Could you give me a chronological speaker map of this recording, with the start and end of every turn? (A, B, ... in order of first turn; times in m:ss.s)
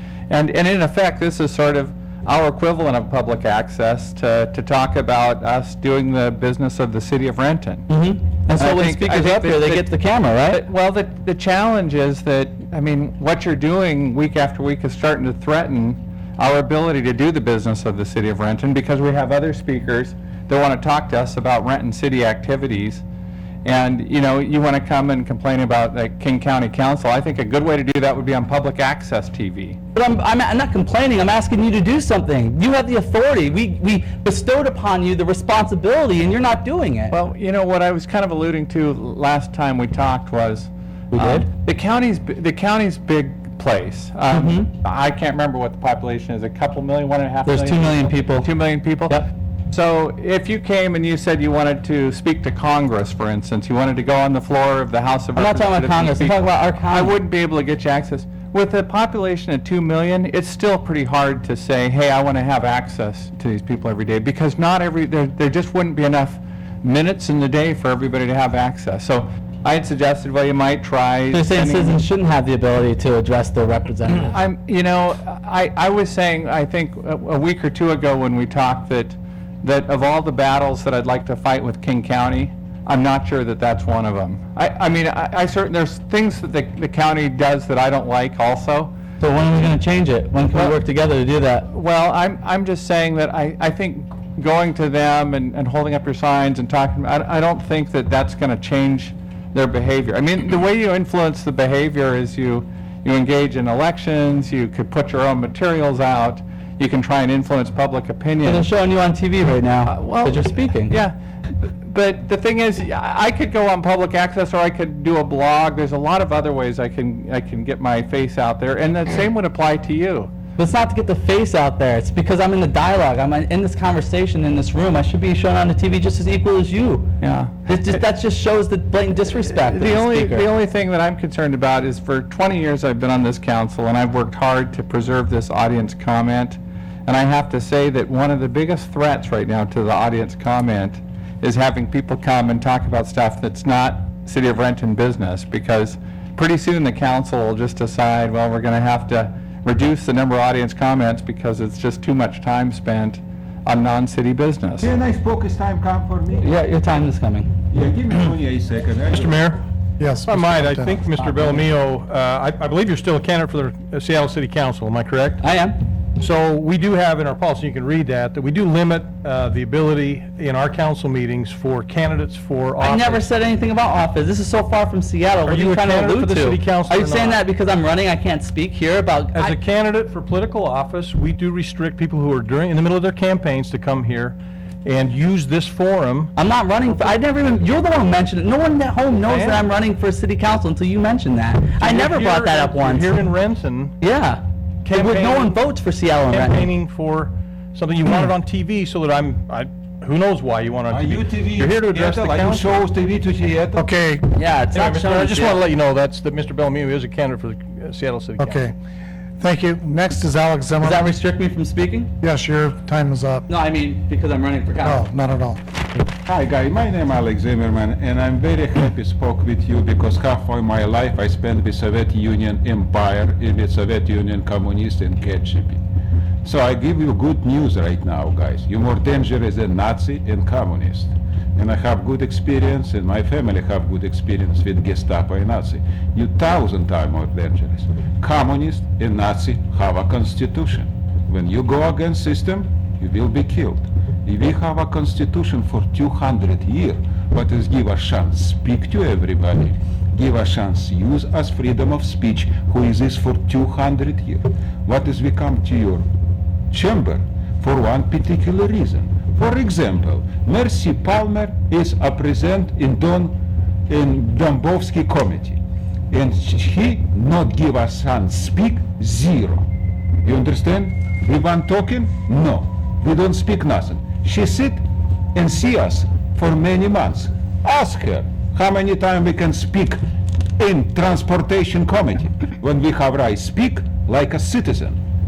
0:00.3-0:07.9 A
0:07.9-0:10.6 B
0:08.5-0:09.8 A
0:10.5-0:23.0 A
0:23.6-0:29.8 A
0:30.0-0:37.1 B
0:37.1-0:49.2 A
0:41.1-0:41.5 B
0:44.3-0:44.7 B
0:47.5-0:48.5 B
0:49.7-0:56.4 A
0:55.4-0:57.1 B
0:56.9-1:12.0 A
1:11.3-1:14.3 B
1:14.2-1:28.9 A
1:29.2-1:31.7 B
1:31.7-1:48.7 A
1:48.4-1:51.0 B
1:49.9-1:51.1 A
1:51.8-2:00.3 A
2:00.6-2:07.1 B
2:07.2-2:07.6 A
2:07.7-2:10.5 B
2:09.3-2:34.9 A
2:34.8-2:36.5 C
2:36.4-2:37.5 B
2:37.7-2:39.4 C
2:39.1-2:39.6 D
2:40.0-2:41.0 E
2:40.3-2:45.4 D
2:45.4-2:45.8 B
2:46.2-2:53.3 D
2:52.8-2:59.6 B
2:55.4-2:57.4 D
2:59.3-3:06.3 D
3:06.4-3:13.2 B
3:09.3-3:09.6 D
3:11.8-3:13.9 D
3:14.0-3:16.7 B
3:14.8-3:15.6 D
3:16.3-3:22.8 D
3:20.9-3:23.8 C
3:23.8-3:24.3 E
3:24.3-3:25.6 B
3:24.7-3:28.7 D
3:28.4-3:28.7 E
3:29.4-3:31.1 E
3:30.8-3:32.1 B
3:32.2-3:33.4 E
3:33.5-3:35.0 B
3:34.8-3:35.6 E
3:36.2-3:45.8 C
3:46.4-4:16.1 C
4:16.7-4:23.4 C
4:23.9-4:25.6 C
4:26.1-4:29.7 C
4:30.2-4:34.8 C
4:35.3-4:40.0 C
4:40.6-4:45.0 C